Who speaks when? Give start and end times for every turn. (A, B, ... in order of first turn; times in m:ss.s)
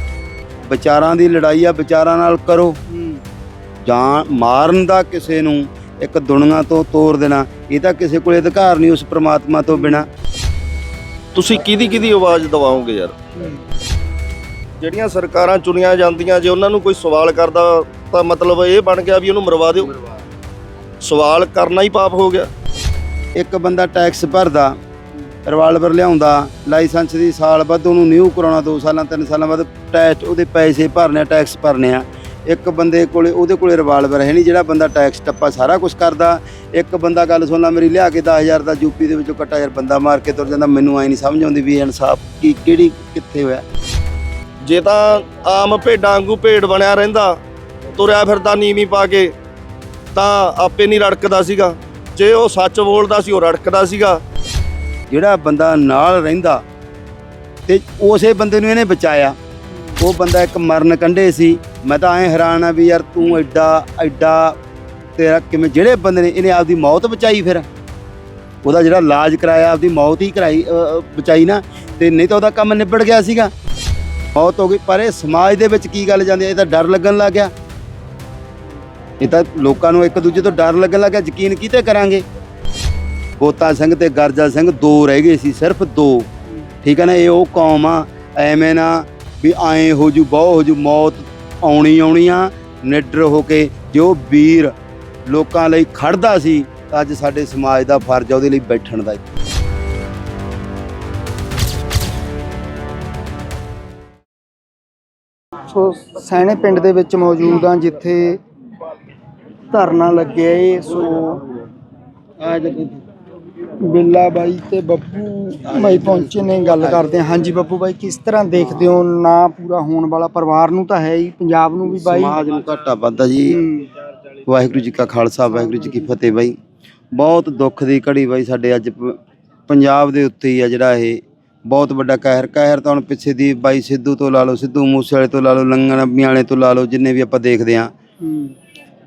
0:00.7-0:02.8 A
0:02.9-0:03.2 B
0:03.8-0:10.1 A
0:09.8-0:10.0 B
0:11.4-0:13.2 C
0:14.8-0:20.0 C
0:21.0-0:22.5 C
0:23.4-0:24.7 A
0:25.5-0:43.6 A
0:44.6-0:47.4 C
0:48.0-0:49.3 C
0:50.2-0:54.2 C
0:55.1-0:56.6 A
0:57.7-0:59.4 A
1:00.0-1:04.6 A
1:05.2-1:07.7 A
1:08.6-1:13.5 A
1:14.4-1:17.5 A
1:19.2-1:22.2 A
1:23.4-1:26.3 A
1:26.8-1:34.7 A
1:35.3-1:39.2 A
1:45.7-1:48.4 B
1:49.7-1:51.4 B
1:52.4-1:53.0 A
1:53.8-2:02.4 B
1:55.7-1:57.1 A
2:01.9-2:03.6 A
2:03.5-2:03.9 B
2:04.5-2:06.6 A
2:07.1-2:09.2 A
2:09.7-2:17.9 A
2:18.3-2:18.5 B